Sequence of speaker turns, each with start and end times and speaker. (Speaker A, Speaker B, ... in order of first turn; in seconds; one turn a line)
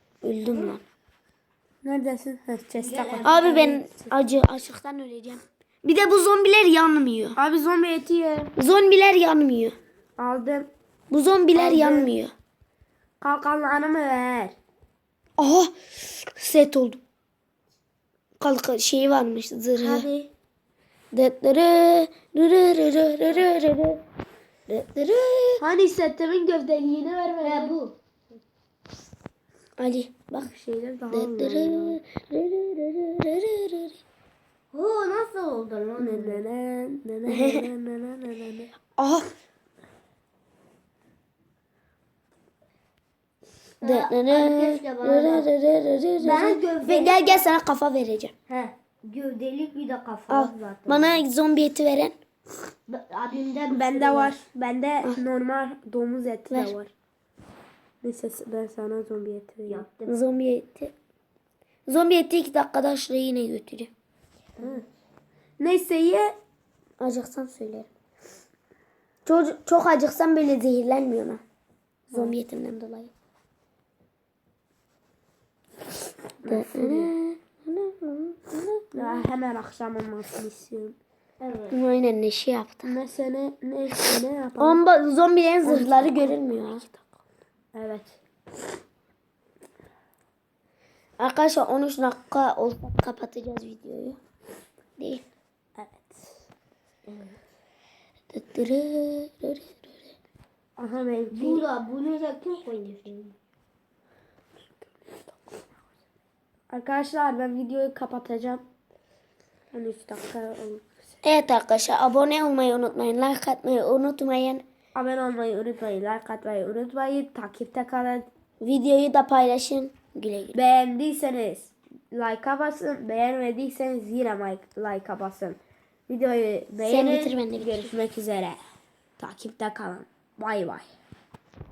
Speaker A: 0.2-0.8
Speaker B: 1.8-4.1
Speaker C: 2.8-3.7
Speaker A: 3.2-7.4
Speaker B: 7.4-8.5
Speaker A: 8.6-9.8
Speaker B: 10.2-10.7
Speaker A: 11.1-12.3
Speaker B: 11.6-12.2
Speaker B: 13.2-14.6
Speaker A: 15.4-17.0
Speaker A: 18.4-20.1
Speaker B: 19.8-20.3
Speaker A: 21.1-24.0
Speaker A: 24.7-25.6
Speaker B: 25.6-27.8
Speaker C: 27.4-27.9
Speaker A: 29.8-30.5
Speaker B: 30.4-32.0
Speaker A: 31.1-34.0
Speaker C: 34.7-36.4
Speaker B: 36.0-39.0
Speaker A: 37.3-37.7
Speaker A: 39.0-39.2
Speaker C: 43.8-45.5
Speaker A: 43.8-48.3
Speaker C: 46.2-47.5
Speaker C: 48.5-51.2
Speaker A: 50.3-52.1
Speaker C: 52.9-54.4
Speaker B: 53.7-56.9
Speaker B: 58.0-59.9
Speaker C: 59.7-60.2
Speaker A: 60.1-60.9
Speaker A: 61.9-63.9
Speaker C: 64.6-64.8
Speaker B: 65.6-66.3
Speaker A: 67.0-67.9
Speaker A: 69.2-71.4
Speaker B: 72.1-72.4
Speaker A: 72.1-73.1
Speaker B: 76.4-77.1
Speaker A: 76.5-79.3
Speaker B: 78.9-81.0
Speaker C: 81.4-81.8
Speaker A: 81.7-82.9
Speaker B: 82.8-84.8
Speaker A: 84.6-86.8
Speaker B: 85.6-87.0
Speaker B: 87.7-88.2
Speaker A: 91.2-94.2
Speaker A: 95.0-95.2
Speaker B: 95.8-96.3
Speaker C: 97.1-97.4
Speaker A: 98.3-100.1
Speaker B: 100.8-101.7
Speaker C: 101.3-103.3
Speaker B: 106.7-108.6
Speaker B: 109.7-111.2
Speaker A: 111.2-114.6
Speaker B: 115.0-118.3
Speaker A: 118.6-120.6
Speaker B: 120.5-128.6
Speaker A: 126.8-127.9
Speaker B: 129.2-130.9